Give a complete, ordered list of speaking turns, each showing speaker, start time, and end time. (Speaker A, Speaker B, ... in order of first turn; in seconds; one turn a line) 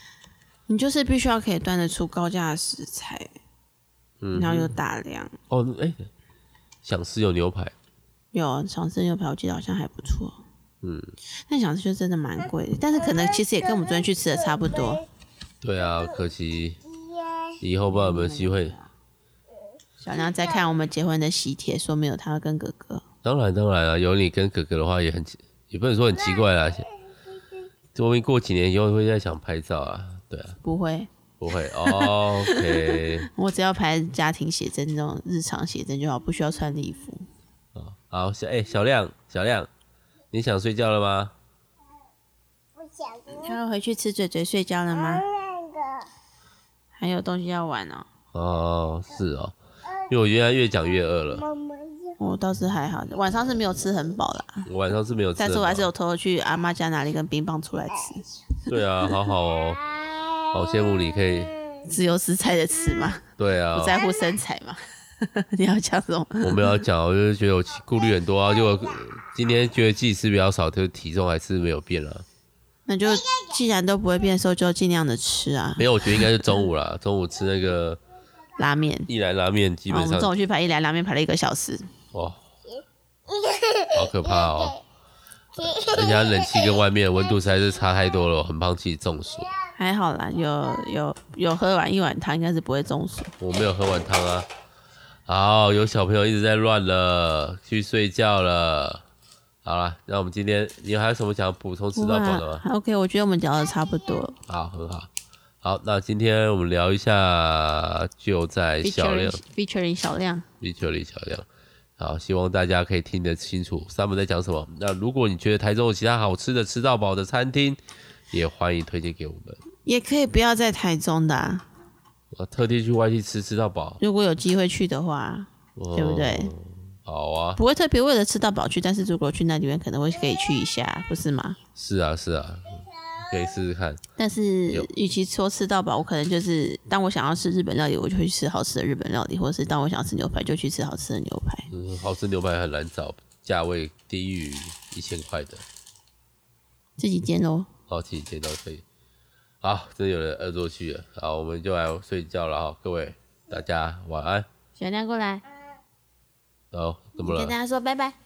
Speaker A: 0.7-3.3
Speaker B: 4.2-4.7
Speaker A: 4.3-5.3
Speaker B: 5.5-6.1
Speaker B: 6.8-7.8
Speaker A: 8.3-10.4
Speaker B: 10.8-11.1
Speaker A: 11.5-15.0
Speaker B: 15.6-16.8
Speaker C: 17.0-17.5
Speaker B: 17.6-18.8
Speaker A: 17.9-18.9
Speaker A: 20.0-23.0
Speaker B: 23.2-26.9
Speaker B: 27.9-30.6
Speaker A: 30.6-31.1
Speaker B: 31.4-33.3
Speaker A: 31.8-37.3
Speaker B: 37.8-39.7
Speaker B: 40.3-41.4
Speaker C: 42.8-43.5
Speaker A: 43.3-45.2
Speaker C: 45.0-46.1
Speaker A: 46.9-48.1
Speaker B: 48.3-49.6
Speaker B: 50.1-51.4
Speaker C: 51.4-52.2
Speaker A: 52.2-54.7
Speaker B: 54.7-55.9
Speaker A: 55.4-58.2
Speaker B: 58.7-59.9
Speaker C: 60.0-60.4
Speaker B: 60.5-61.5
Speaker A: 61.9-66.8
Speaker B: 63.4-64.0
Speaker B: 66.4-72.3
Speaker A: 72.9-76.5
Speaker B: 75.8-78.0
Speaker A: 78.6-79.1
Speaker B: 79.1-80.3
Speaker A: 79.9-81.9
Speaker B: 82.1-82.4
Speaker C: 83.3-84.8
Speaker B: 83.9-84.8
Speaker C: 85.6-86.8
Speaker B: 85.6-89.5
Speaker A: 89.8-93.3
Speaker B: 93.4-94.5
Speaker B: 95.3-99.0
Speaker B: 99.6-102.6
Speaker A: 102.0-104.4
Speaker B: 104.5-105.1
Speaker B: 105.6-109.4
Speaker A: 108.8-110.5
Speaker B: 110.6-111.5
Speaker B: 112.0-117.8
Speaker B: 118.3-119.6
Speaker A: 119.8-121.7
Speaker B: 122.3-124.0
Speaker A: 124.0-126.5
Speaker B: 125.8-127.6
Speaker A: 127.6-131.6
Speaker B: 131.8-134.0
Speaker A: 134.2-141.7
Speaker B: 141.7-145.6
Speaker A: 147.0-147.7
Speaker B: 147.9-148.8
Speaker B: 149.6-154.5
Speaker A: 154.8-155.4
Speaker B: 156.7-157.6
Speaker A: 157.2-158.2